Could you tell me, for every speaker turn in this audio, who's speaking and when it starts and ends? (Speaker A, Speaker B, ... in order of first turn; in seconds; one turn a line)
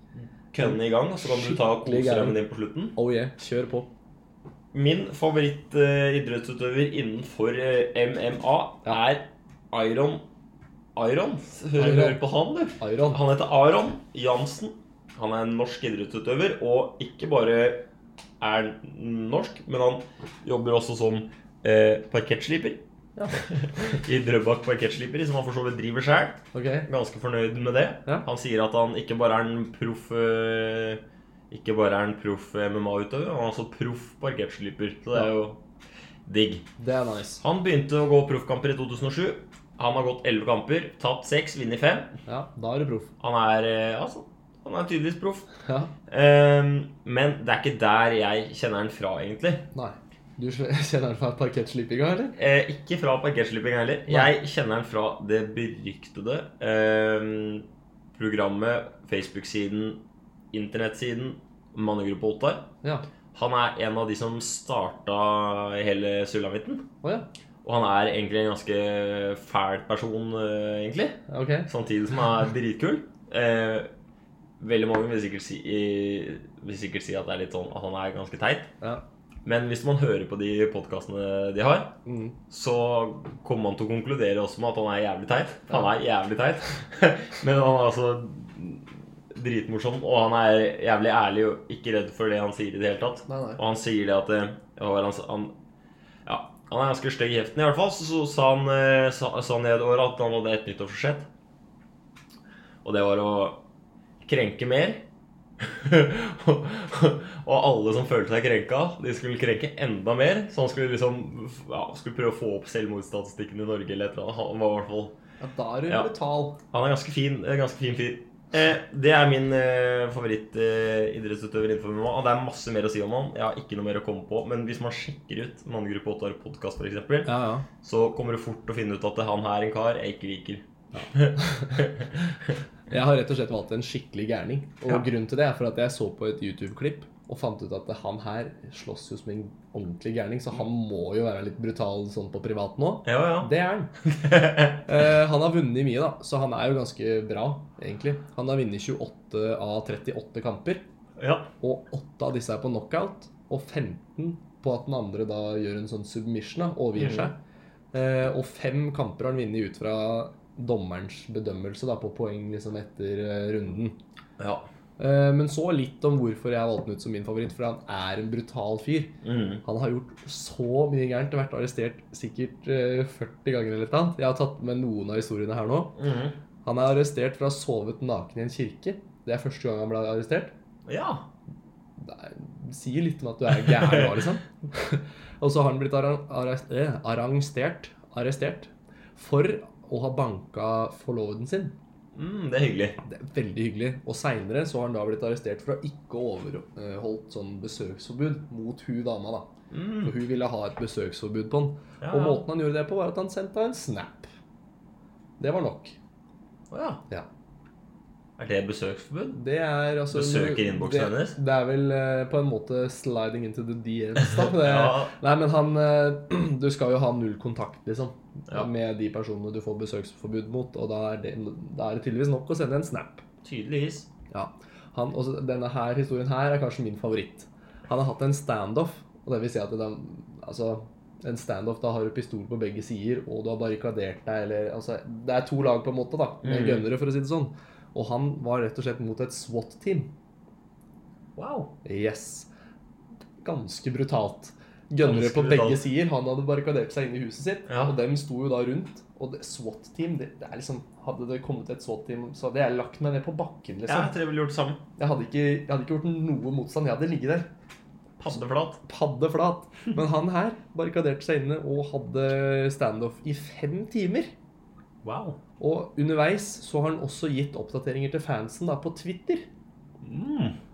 Speaker A: 0.2-2.9
Speaker B: 1.2-2.4
Speaker B: 2.9-3.9
Speaker A: 4.7-10.2
Speaker A: 10.9-17.9
Speaker B: 11.7-12.2
Speaker B: 12.8-13.2
Speaker A: 18.4-22.8
Speaker B: 23.1-23.5
Speaker A: 23.3-35.6
Speaker B: 26.5-26.9
Speaker A: 36.2-36.6
Speaker B: 36.8-37.4
Speaker A: 37.4-42.1
Speaker B: 42.3-43.1
Speaker A: 43.2-45.5
Speaker A: 46.1-49.6
Speaker B: 49.7-52.3
Speaker A: 52.3-60.0
Speaker A: 60.5-62.6
Speaker A: 63.3-66.8
Speaker A: 67.6-73.9
Speaker B: 71.3-71.7
Speaker A: 74.6-78.7
Speaker A: 79.4-81.9
Speaker B: 82.0-82.3
Speaker A: 82.5-95.5
Speaker B: 93.3-93.6
Speaker A: 96.2-101.3
Speaker A: 102.8-103.6
Speaker A: 104.2-105.0
Speaker A: 105.6-115.1
Speaker B: 115.4-116.6
Speaker A: 116.7-132.1
Speaker B: 127.2-127.6
Speaker B: 130.9-131.9
Speaker B: 132.9-143.9
Speaker A: 143.0-144.8
Speaker B: 144.8-150.8
Speaker A: 151.2-151.5
Speaker B: 151.6-157.4
Speaker A: 157.0-157.3
Speaker B: 157.9-163.9
Speaker A: 164.4-164.7
Speaker B: 165.0-169.1
Speaker A: 169.2-169.6
Speaker B: 169.6-175.9
Speaker A: 176.0-176.3
Speaker B: 176.6-180.5
Speaker A: 180.8-181.2
Speaker B: 182.0-191.7
Speaker A: 183.6-184.2
Speaker A: 192.1-193.0
Speaker B: 193.0-199.5
Speaker A: 199.7-200.1
Speaker B: 200.0-204.3
Speaker A: 202.0-202.4
Speaker B: 205.4-205.9
Speaker A: 206.7-207.0
Speaker A: 208.4-209.4
Speaker B: 209.3-223.2
Speaker A: 210.1-211.4
Speaker A: 214.2-215.1
Speaker A: 223.4-224.1
Speaker B: 224.3-240.1
Speaker A: 236.4-236.8
Speaker A: 241.3-241.7
Speaker B: 241.8-242.5
Speaker B: 243.4-254.1
Speaker A: 245.0-245.8
Speaker A: 253.9-254.8
Speaker B: 255.0-257.5
Speaker A: 258.2-258.8
Speaker B: 258.8-264.3
Speaker A: 265.0-265.4
Speaker B: 265.6-269.5
Speaker A: 270.0-270.6